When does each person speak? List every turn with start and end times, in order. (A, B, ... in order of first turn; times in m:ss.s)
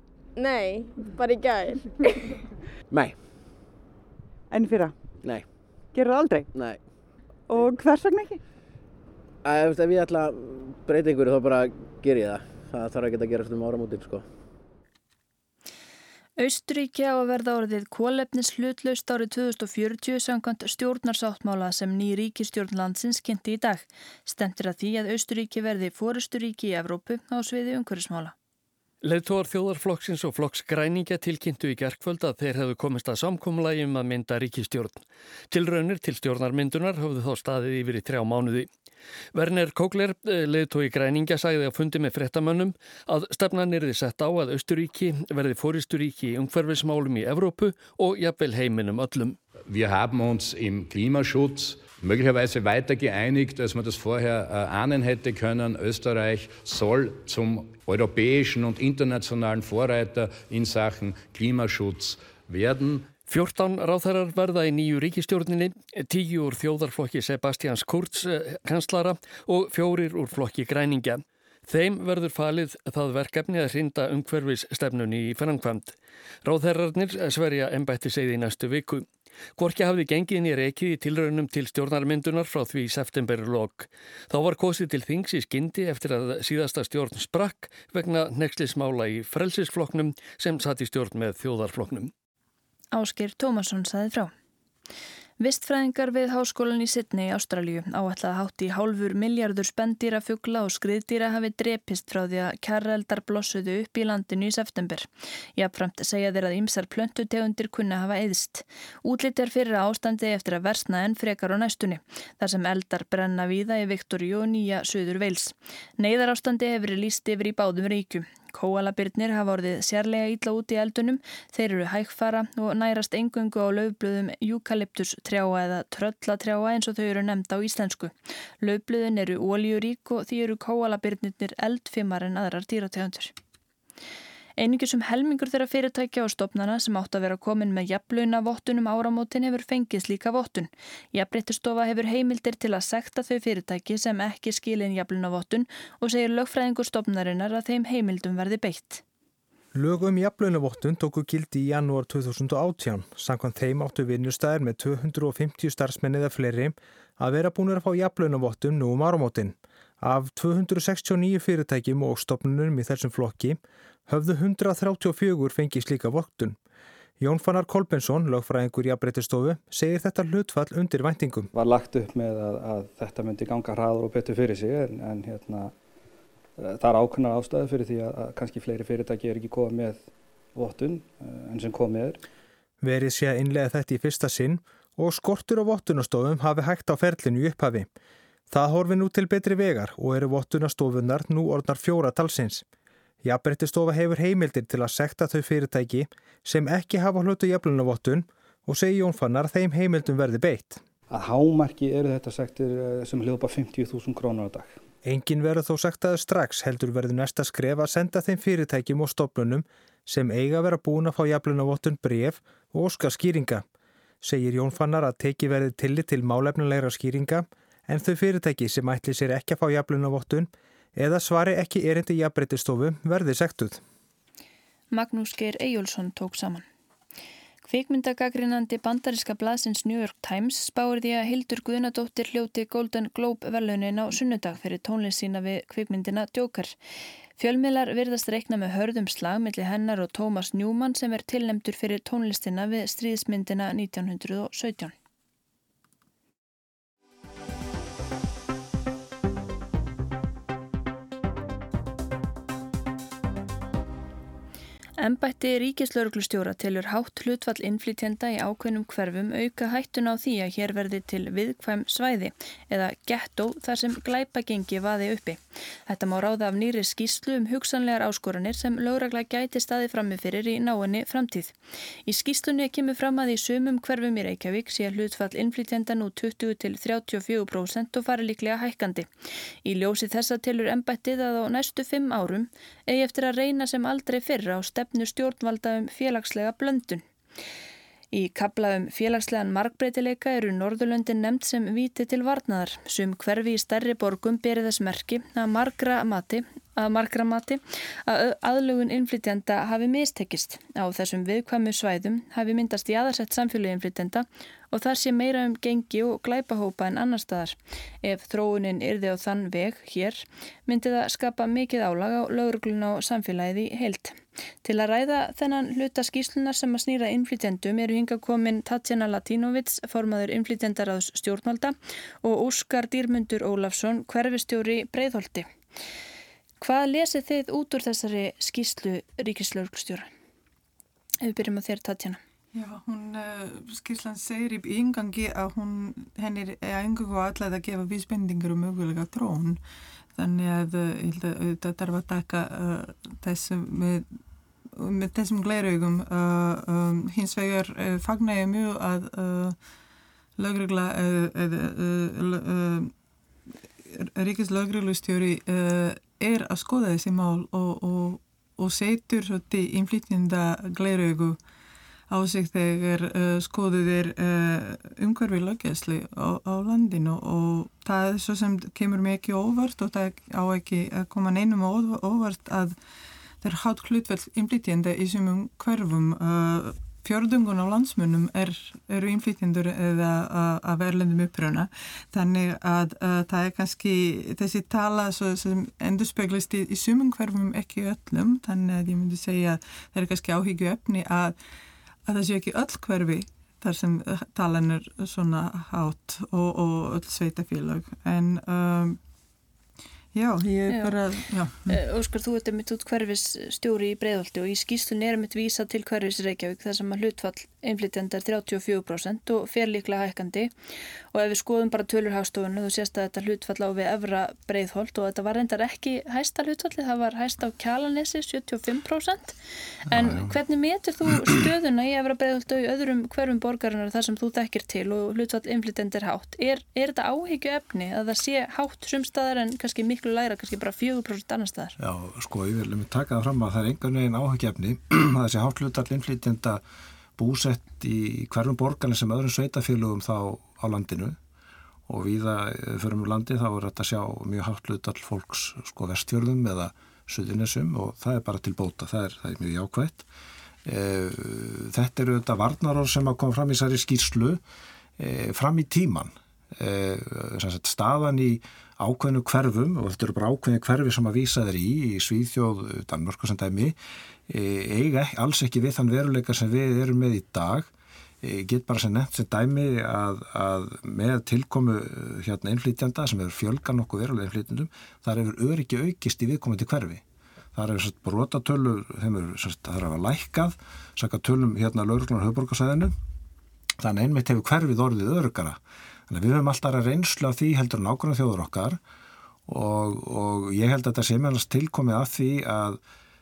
0:00.3-0:02.3 A
0:02.9-0:03.2 B
0:04.5-0:04.9 C
0:05.2-0:05.6 B
0:05.9-0:06.5 C
0:06.5-0:06.8 B
0:07.5-0:08.4 C
0:09.4-0:14.2 B
0:16.4-0:28.3 D
0:29.0-0:38.7 E
0:39.3-0:49.4 E
0:49.6-1:03.1 F
1:03.3-1:19.0 E
1:19.6-1:32.1 E
1:32.9-1:34.3 D
1:35.4-2:13.3 D
2:14.6-2:29.0 D
2:29.7-2:46.6 G
2:47.2-2:51.5 G
2:51.5-2:55.7 H
2:56.6-3:02.2 H
3:02.8-3:07.9 G
3:08.5-3:12.6 G
3:13.2-3:20.8 G
3:21.1-3:24.8 H
3:25.0-3:33.6 G
3:34.2-3:43.8 G
3:44.9-3:46.6 D
3:47.6-3:56.8 D
3:57.4-4:04.9 D
4:15.0-4:31.5 D
4:32.0-4:39.1 D
4:39.6-4:47.0 D
4:48.1-5:25.5 D
5:26.6-5:30.1 D
5:31.2-5:32.2 D
5:32.5-5:39.6 I
5:40.2-5:44.1 I
5:44.7-5:49.6 I
5:50.4-5:52.9 I
5:53.9-6:01.4 I
6:02.1-6:12.8 I
6:13.4-6:31.4 I
6:32.0-6:39.0 I
6:40.1-6:41.7 I
6:40.7-6:41.0 D
6:41.6-6:50.5 D
6:51.1-7:11.7 D
6:59.9-7:00.3 J
7:11.8-7:16.6 J
7:17.2-7:21.2 J
7:21.9-7:30.1 J
7:30.6-7:34.4 J
7:35.0-7:43.8 J
7:44.3-7:47.7 J
7:48.2-7:57.0 J
7:57.5-8:02.9 J
8:03.8-8:08.8 J
8:09.5-8:12.8 J